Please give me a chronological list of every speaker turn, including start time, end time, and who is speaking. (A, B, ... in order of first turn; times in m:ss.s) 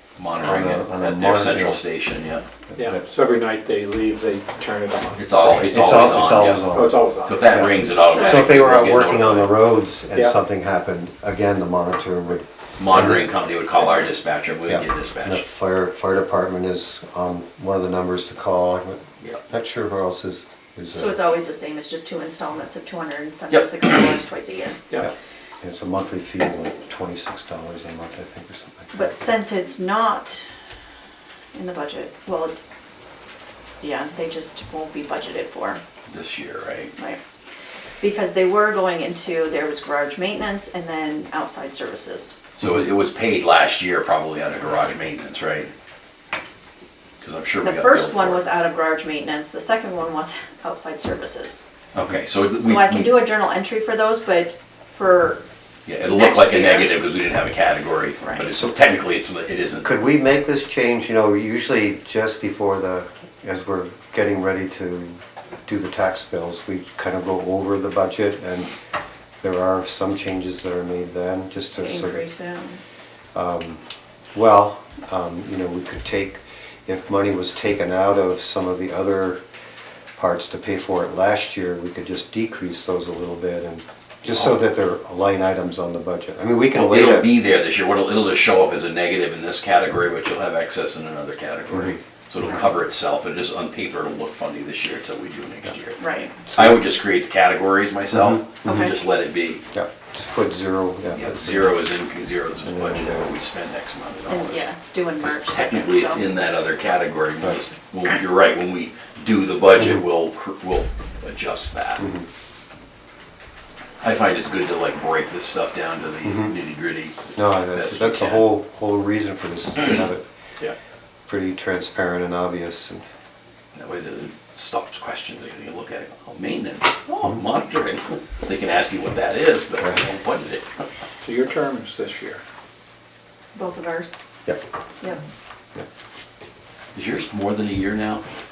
0:00.2-0:02.5 A
0:00.4-0:01.8 B
0:02.7-0:05.9 C
0:05.2-0:09.5 A
0:05.4-0:13.2 B
0:06.7-0:07.6 C
0:08.0-0:08.5 D
0:12.8-0:15.4 A
0:14.7-0:21.2 B
0:20.9-0:24.8 D
0:23.5-0:24.0 A
0:25.0-0:29.2 B
0:28.9-0:30.4 D
0:31.5-0:32.7 D
0:33.8-0:35.8 D
0:36.1-0:36.9 A
0:38.0-0:42.4 D
0:42.6-0:45.7 A
0:47.2-0:48.5 A
0:47.6-0:51.6 D
0:51.9-0:53.3 A
0:52.6-0:55.4 D
0:55.9-0:59.9 A
0:56.0-0:56.9 D
0:58.2-0:58.6 D
0:59.8-1:08.7 B
1:09.4-1:12.2 B
1:11.8-1:12.8 D
1:13.4-1:13.8 B
1:14.3-1:19.4 B
1:20.2-1:27.3 B
1:26.7-1:36.0 A
1:31.7-1:32.0 B
1:36.0-1:36.4 D
1:36.5-1:39.6 A
1:38.1-1:38.7 B
1:38.7-1:38.9 D
1:39.7-1:41.8 B
1:41.1-1:44.7 A
1:42.6-1:43.3 B
1:44.3-1:46.2 D
1:45.2-1:52.0 A
1:52.0-1:52.3 B
1:54.0-1:58.5 A
1:56.2-1:56.5 B
1:57.4-2:00.3 B
2:01.3-2:03.0 B
2:03.8-2:10.8 A
2:11.2-2:12.4 C
2:13.6-2:14.1 D
2:17.0-2:18.2 A